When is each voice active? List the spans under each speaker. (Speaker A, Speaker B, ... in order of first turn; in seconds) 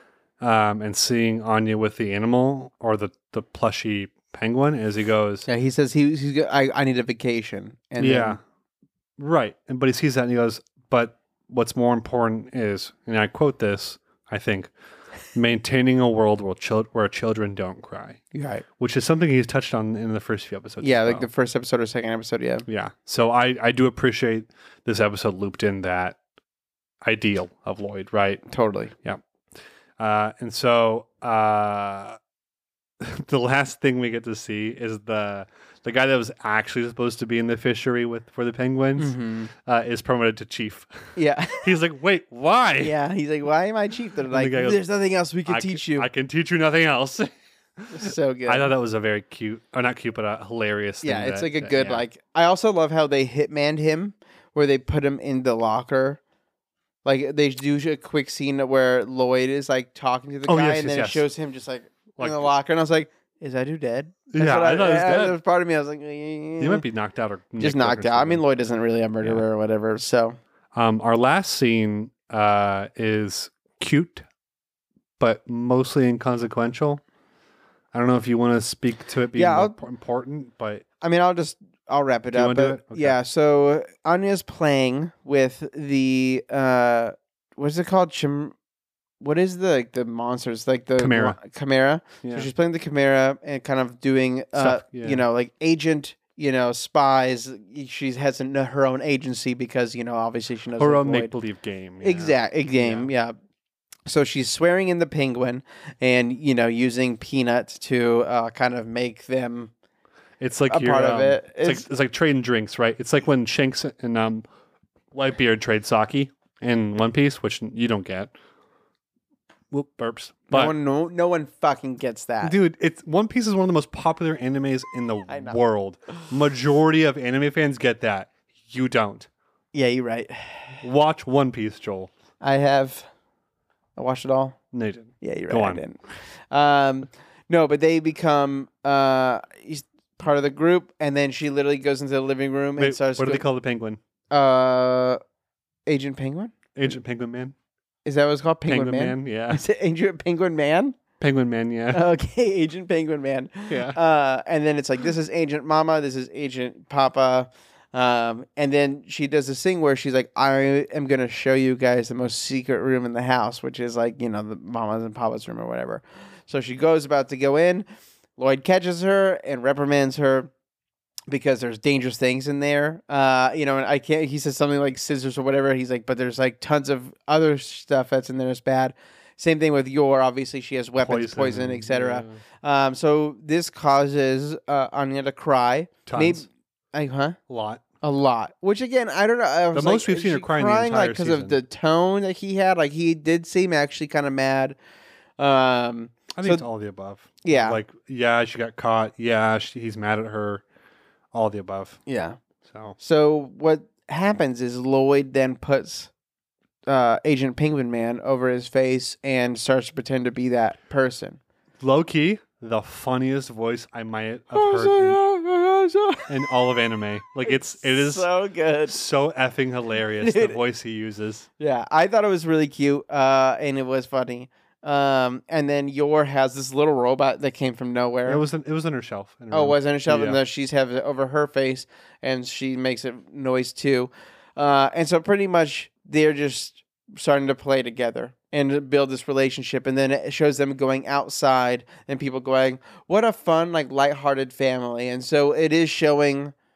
Speaker A: 0.4-5.5, 8.0-8.4, 9.2-14.7, 15.3-18.2, 18.8-21.3, 22.7-26.2, 27.0-28.4, 30.0-32.2, 33.0-42.9, 44.3-44.8, 45.5-52.0, 60.5-61.2, 62.1-62.5, 64.3-65.4, 66.6-68.4, 70.7-74.2, 75.2-77.0, 77.9-80.8, 82.3-83.2, 91.0-91.4, 92.2-92.5, 94.5-95.2, 100.8-103.1, 110.4-114.4, 115.1-118.3, 119.7-120.7, 122.4-129.3, 130.8-132.1, 134.7-135.8, 142.8-144.0, 146.7-147.5, 148.7-149.6, 151.2-152.0, 153.7-154.0, 181.0-182.4, 186.1-186.4, 187.5-187.8, 189.7-191.6, 196.3-200.6, 201.3-202.0, 202.7-203.0, 211.8-215.2, 216.3-218.3, 218.9-221.4, 228.2-230.4
Speaker B: 5.5-8.4, 18.3-18.6, 20.8-22.6, 28.5-28.9, 39.0-39.5, 41.1-41.7, 42.8-46.1, 47.9-48.7, 51.0-56.2, 57.0-66.8, 67.6-70.4, 79.3-79.8, 81.0-88.5, 89.2-101.3, 102.0-103.3, 104.1-109.7, 110.7-111.8, 120.5-122.5, 125.3-125.6, 129.7-130.8, 132.4-133.1, 133.9-134.6, 135.2-143.4, 144.3-145.2, 145.8-146.5, 148.0-151.0, 151.9-167.8, 168.4-170.5, 171.3-187.4, 188.0-194.8, 195.4-196.6, 197.4-197.8, 202.1-202.4, 203.0-206.1, 206.9-211.4, 214.5-216.5, 217.4-218.9, 220.2-220.6, 221.6-228.4, 229.5-246.5